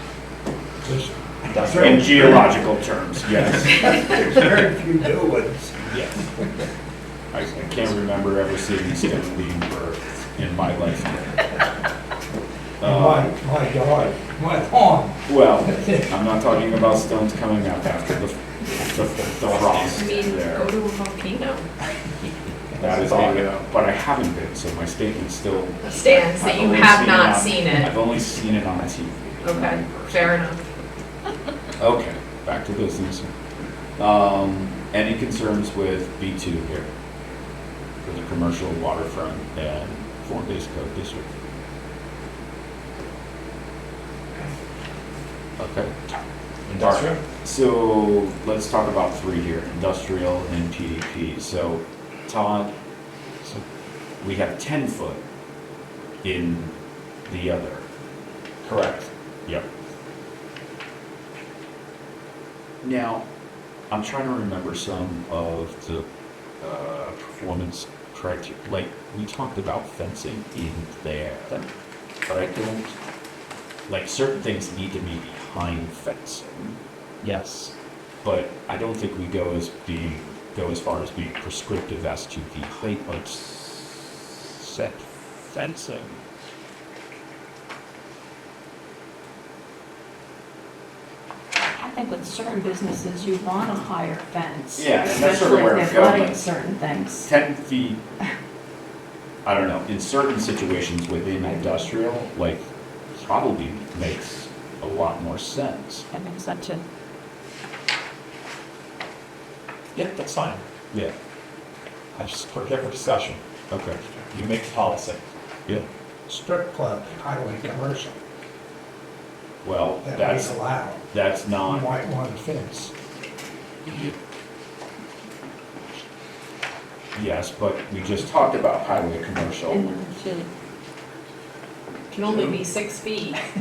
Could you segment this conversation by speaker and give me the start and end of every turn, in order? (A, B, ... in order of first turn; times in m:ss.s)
0:00.8-0:02.5 A
0:01.5-0:02.0 B
0:01.8-0:04.2 C
0:03.5-0:06.4 A
0:05.8-0:06.2 C
0:07.3-0:11.4 C
0:12.8-0:13.3 C
0:12.8-0:16.1 A
0:15.3-0:20.7 C
0:19.4-0:20.1 B
0:19.9-0:21.7 D
0:22.8-0:23.6 B
0:22.8-0:30.4 C
0:25.8-0:27.9 D
0:29.4-0:30.6 D
0:31.8-0:33.3 C
0:34.0-0:36.9 C
0:38.0-0:41.3 C
0:45.6-0:46.2 C
0:46.7-0:47.2 B
0:46.8-0:52.7 C
0:54.2-0:55.2 C
0:56.2-0:57.9 C
0:58.6-0:59.1 B
1:02.8-1:03.2 C
1:03.9-1:06.1 C
1:06.6-1:11.6 C
1:12.3-1:13.0 C
1:13.9-1:16.8 C
1:17.2-1:17.8 B
1:18.2-1:23.5 C
1:24.6-1:26.1 C
1:31.7-1:37.3 E
1:34.8-1:36.4 C
1:37.2-1:38.0 C
1:39.4-1:46.0 C
1:46.1-1:46.8 E
1:49.9-1:50.6 B
1:52.2-1:53.4 B
1:53.7-1:54.0 C
1:54.3-1:55.2 B
1:56.3-1:58.2 A
1:59.6-2:00.6 C
2:00.0-2:01.0 A
2:01.1-2:01.9 C
2:01.6-2:02.9 A
2:07.2-2:10.0 C
2:09.7-2:10.5 E
2:12.1-2:13.4 D